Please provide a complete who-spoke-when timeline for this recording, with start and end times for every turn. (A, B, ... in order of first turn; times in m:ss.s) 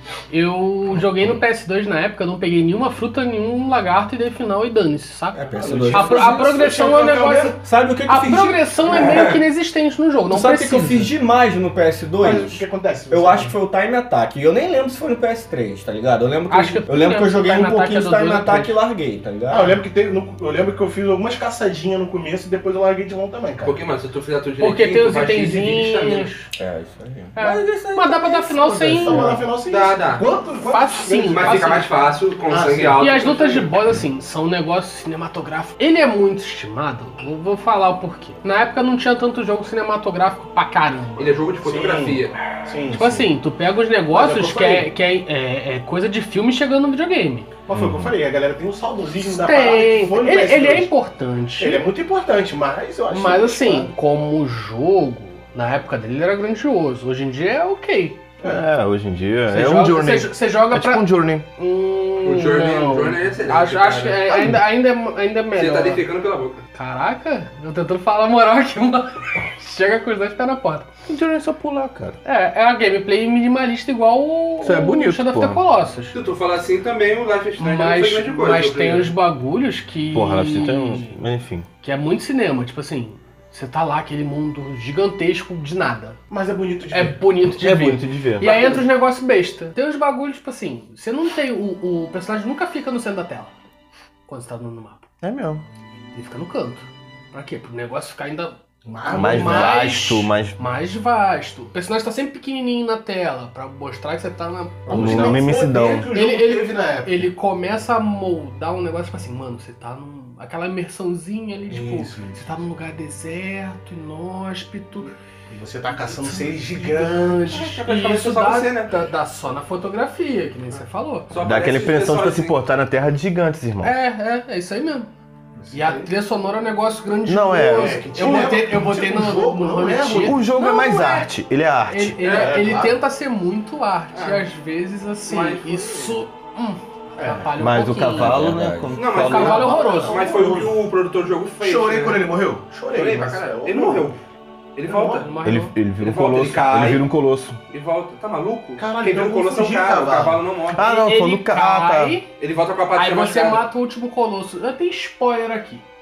0:00.3-0:11.1 A
0:05.3-0:06.9 B
0:05.6-0:07.6 C
0:07.5-0:09.4 B
0:08.9-0:09.4 D
0:10.3-0:19.8 B
0:12.2-0:13.6 C
0:16.5-0:18.7 A
0:19.5-0:23.8 C
0:23.6-0:26.3 D
0:24.6-0:26.5 A
0:26.5-0:29.5 B
0:27.4-0:29.3 A
0:29.0-0:31.8 C
0:29.7-0:30.2 D
0:30.6-0:31.9 A
0:31.3-0:33.7 D
0:32.5-0:33.0 C
0:33.0-0:41.4 A
0:41.2-0:42.4 D
0:41.6-0:43.3 C
0:42.9-0:47.5 A
0:44.1-0:44.9 C
0:47.6-0:50.9 C
0:47.7-0:48.1 E
0:49.2-0:51.8 A
0:51.6-0:53.9 C
0:53.1-0:58.2 A
0:58.4-1:01.4 E
0:59.5-1:06.0 A
1:02.2-1:04.5 D
1:05.5-1:06.6 D
1:06.7-1:10.9 A
1:11.0-1:12.2 E
1:12.2-1:16.2 A
1:14.6-1:15.6 E
1:16.1-1:19.1 D
1:17.6-1:21.2 A
1:20.1-1:21.7 E
1:21.8-1:26.2 A
1:26.3-1:27.2 C
1:26.9-1:33.5 A
1:27.4-1:28.5 E
1:28.4-1:28.8 D
1:34.3-1:35.1 A
1:35.2-1:35.6 E
1:36.1-1:45.4 A
1:38.8-1:39.9 C
1:39.1-1:40.6 E
1:44.9-1:47.3 C
1:44.9-1:46.1 E
1:46.1-1:55.1 A
1:51.7-1:52.4 C
1:55.5-1:57.6 C
1:56.0-2:01.3 A
1:57.5-1:58.9 D
2:01.3-2:02.5 D
2:01.4-2:03.9 E
2:03.8-2:05.1 A
2:05.5-2:06.1 C
2:05.7-2:11.3 A
2:07.2-2:08.0 E
2:07.7-2:10.4 C
2:10.1-2:12.4 E
2:11.9-2:18.5 A
2:12.2-2:12.9 D
2:12.3-2:12.9 C
2:14.1-2:14.4 D
2:15.3-2:16.2 D
2:17.2-2:17.5 C
2:17.6-2:19.7 E
2:18.1-2:19.0 B
2:18.9-2:22.2 D
2:19.1-2:20.2 A
2:19.3-2:20.8 C
2:21.6-2:24.1 C
2:22.9-2:24.2 D
2:24.7-2:25.3 D
2:24.8-2:25.3 C
2:25.1-2:25.8 A
2:25.4-2:27.6 E
2:26.0-2:27.0 D
2:27.7-2:30.9 D
2:28.8-2:30.4 C
2:30.7-2:32.2 E
2:30.8-2:32.3 A
2:32.4-2:33.6 D
2:32.9-2:35.8 A